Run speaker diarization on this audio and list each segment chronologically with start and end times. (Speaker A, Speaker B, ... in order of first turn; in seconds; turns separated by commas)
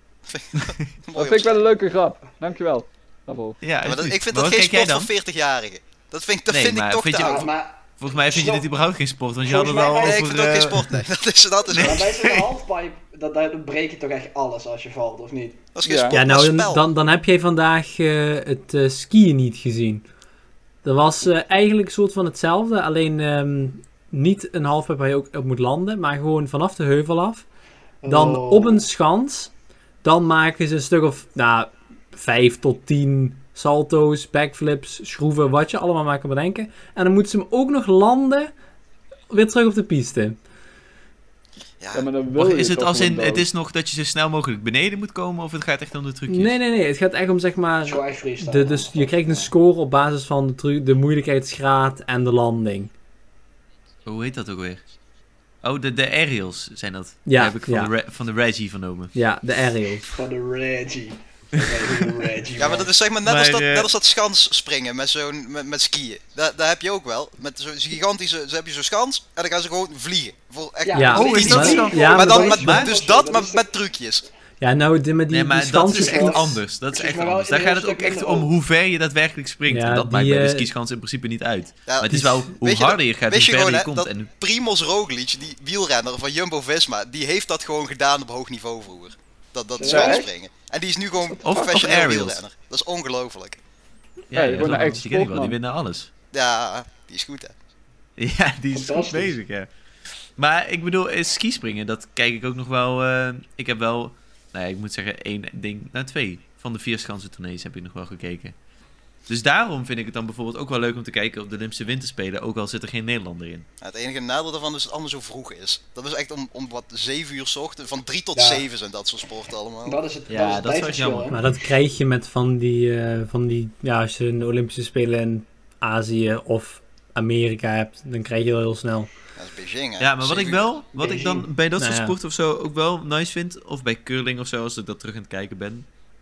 Speaker A: 0.3-1.6, Speaker B: 0.5-0.9, Speaker C: 1.1-3.6, Speaker B: 3.6-5.1, Speaker A: 3.8-7.5, Speaker B: 6.5-11.1, Speaker D: 7.2-8.7, Speaker D: 9.4-10.3, Speaker A: 9.9-12.3, Speaker B: 11.7-12.5, Speaker D: 11.8-15.6, Speaker A: 15.7-16.8, Speaker C: 15.8-16.1, Speaker E: 16.1-20.1, Speaker E: 20.8-27.4, Speaker D: 28.0-28.8, Speaker E: 28.1-29.5, Speaker E: 30.0-38.5, Speaker E: 39.3-40.4, Speaker A: 41.8-42.1, Speaker C: 41.9-43.5, Speaker B: 42.3-46.5, Speaker E: 46.3-52.9, Speaker D: 47.8-49.5, Speaker B: 54.0-54.8, Speaker B: 55.6-59.2, Speaker E: 57.2-57.9, Speaker E: 59.1-60.0, Speaker D: 60.1-62.9, Speaker B: 61.6-62.0, Speaker A: 62.6-74.2, Speaker B: 63.2-63.9, Speaker D: 70.8-73.7, Speaker E: 70.9-72.8, Speaker B: 71.1-72.9, Speaker E: 74.6-76.6, Speaker B: 75.3-84.3, Speaker D: 75.8-78.5, Speaker E: 79.7-80.7, Speaker A: 81.9-93.6, Speaker E: 82.1-82.5, Speaker D: 89.8-90.3, Speaker C: 89.9-90.2, Speaker C: 91.3-91.7, Speaker B: 91.4-92.4, Speaker B: 94.3-96.1, Speaker C: 94.3-95.5, Speaker A: 96.3-97.5, Speaker B: 98.2-99.7, Speaker D: 98.7-99.4, Speaker B: 100.4-108.5, Speaker B: 109.3-113.7, Speaker A: 113.8-120.0, Speaker D: 118.3-118.7, Speaker D: 119.8-121.5, Speaker B: 120.3-121.4, Speaker E: 121.3-129.1, Speaker A: 129.3-130.6, Speaker B: 130.0-135.9, Speaker D: 130.9-131.5, Speaker E: 131.8-132.2